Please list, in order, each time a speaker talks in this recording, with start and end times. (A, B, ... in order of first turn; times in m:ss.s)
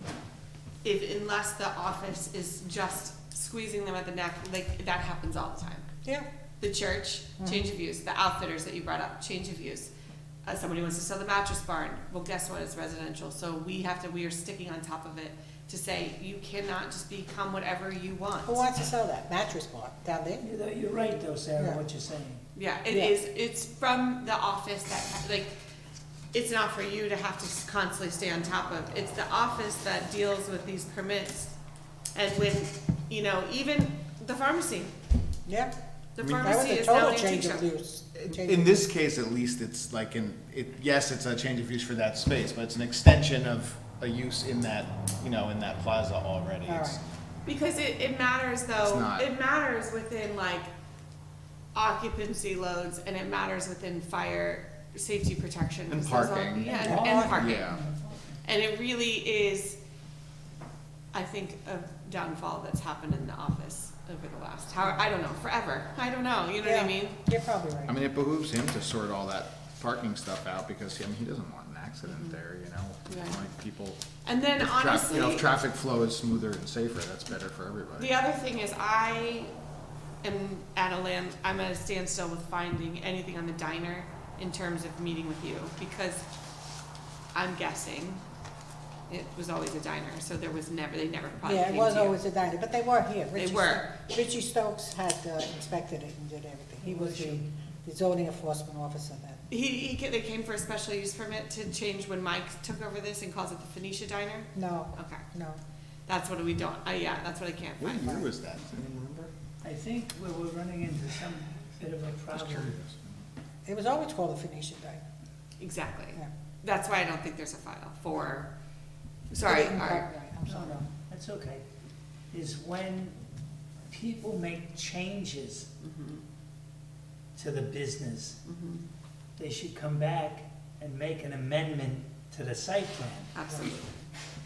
0:00.8-0:05.9 A
0:06.6-0:09.9 A
0:07.4-0:07.6 B
0:10.4-0:18.6 A
0:18.4-0:20.5 B
0:20.4-0:22.4 C
0:22.6-0:25.5 A
0:22.9-0:23.2 B
0:26.3-0:31.6 A
0:32.1-0:34.9 A
0:35.5-0:35.7 B
0:36.2-0:37.7 A
0:36.2-0:36.5 D
0:36.4-0:38.8 B
0:38.3-0:47.0 D
0:46.7-0:47.0 B
0:47.4-0:50.7 A
0:48.8-0:49.3 D
0:51.7-0:57.7 A
0:55.9-0:57.8 D
0:56.6-0:58.4 C
0:56.8-0:57.4 B
0:58.4-0:59.8 A
1:01.1-1:07.2 A
1:06.6-1:08.0 B
1:07.9-1:14.0 D
1:12.1-1:12.4 A
1:13.1-1:13.4 A
1:14.2-1:15.5 A
1:14.6-1:18.1 D
1:18.0-1:19.5 A
1:20.2-1:26.2 A
1:27.3-1:28.2 A
1:29.1-1:32.2 A
1:31.5-1:39.4 B
1:33.4-1:33.9 A
1:36.8-1:37.5 C
1:39.5-1:45.2 A
1:44.6-1:45.6 B
1:46.1-1:48.2 A
1:47.8-1:49.3 D
1:49.6-1:52.8 C
1:52.3-1:53.2 D
1:53.7-1:55.0 B
1:55.6-1:58.5 A
1:59.3-2:00.1 A
1:59.4-2:00.9 B
2:00.4-2:01.6 C
2:02.3-2:03.2 C
2:03.9-2:05.7 C
2:05.8-2:06.2 A
2:07.4-2:08.4 C
2:08.5-2:08.9 A
2:09.4-2:13.3 C
2:13.3-2:14.1 A